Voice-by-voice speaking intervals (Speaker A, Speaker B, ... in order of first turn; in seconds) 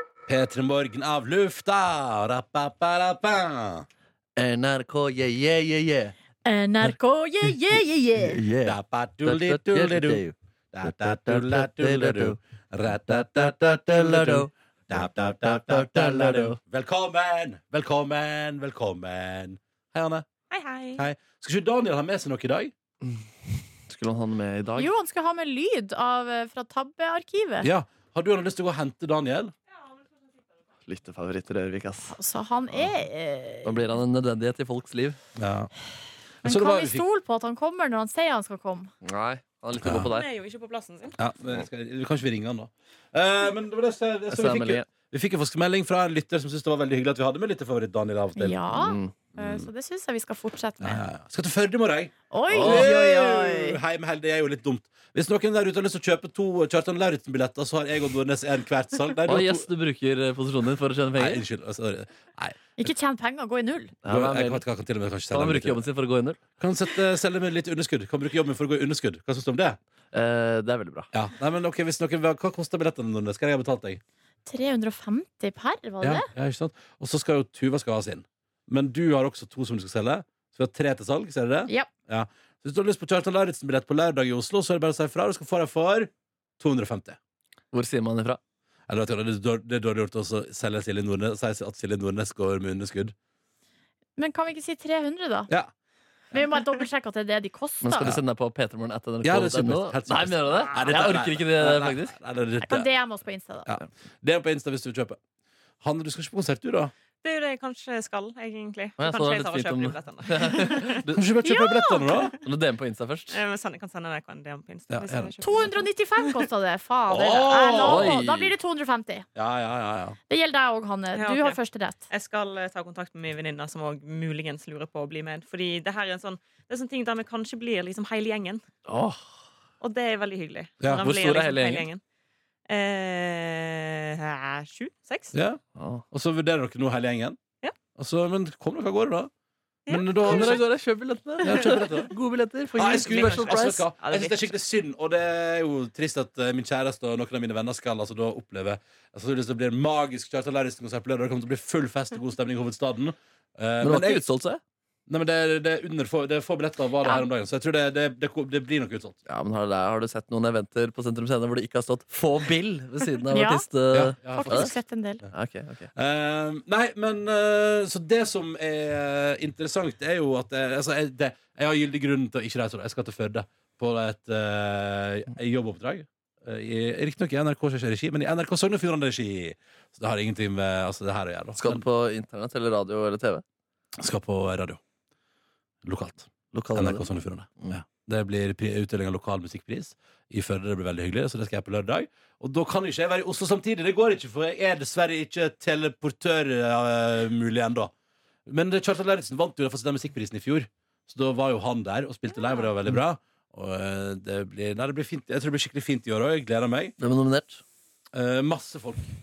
Speaker A: 0.3-3.9, 8.6-10.2, 10.7-20.2, 21.0-22.7, 27.6-29.5, 35.4-35.7, 36.4-37.0, 41.2-48.6, 49.4-49.7, 50.8-59.6, 61.2-62.6, 64.1-65.8, 66.6-69.8, 71.1-74.0, 76.0-87.2, 88.9-93.1, 99.2-102.9, 103.7-105.2, 105.8-106.9, 111.2-112.3, 114.9-115.3, 117.1-118.2, 119.4-120.2, 135.3-135.6, 136.1-137.4, 137.9-139.3, 139.9-140.6, 141.4-142.1, 142.8-154.2, 155.1-159.2, 163.9-164.7, 165.9-181.8, 184.0-184.8, 185.8-197.9, 198.5-206.9, 208.1-209.0
Speaker B: 4.4-6.1, 8.2-12.4, 13.1-16.6, 23.9-24.9, 30.9-32.1, 33.6-35.2, 39.0-40.3, 44.3-44.9, 48.7-49.1, 52.5-52.8, 59.3-61.4, 64.0-64.6, 65.3-66.4, 70.1-71.1, 87.7-88.4, 97.8-102.2, 109.0-111.2, 112.4-113.4, 117.8-118.5, 128.8-129.3, 131.0-131.9, 135.8-136.0, 140.3-143.8, 153.8-154.6, 159.2-164.7, 165.3-165.9, 181.6-183.4, 186.5-187.8, 207.0-207.6
Speaker C: 6.5-8.4, 24.8-27.7, 32.1-33.9, 36.4-38.9, 48.4-51.0, 52.3-53.8, 62.8-64.0, 74.5-76.2, 94.2-95.5, 96.3-98.1, 102.6-103.7, 111.4-112.2, 115.4-119.3, 120.3-122.0, 163.3-163.6, 164.3-165.2
Speaker D: 20.5-21.0, 40.1-41.2, 107.2-111.0, 113.3-115.9, 121.1-121.6, 122.1-128.6, 129.8-132.0, 132.7-135.3, 139.9-140.6, 141.5-141.8, 143.0-144.5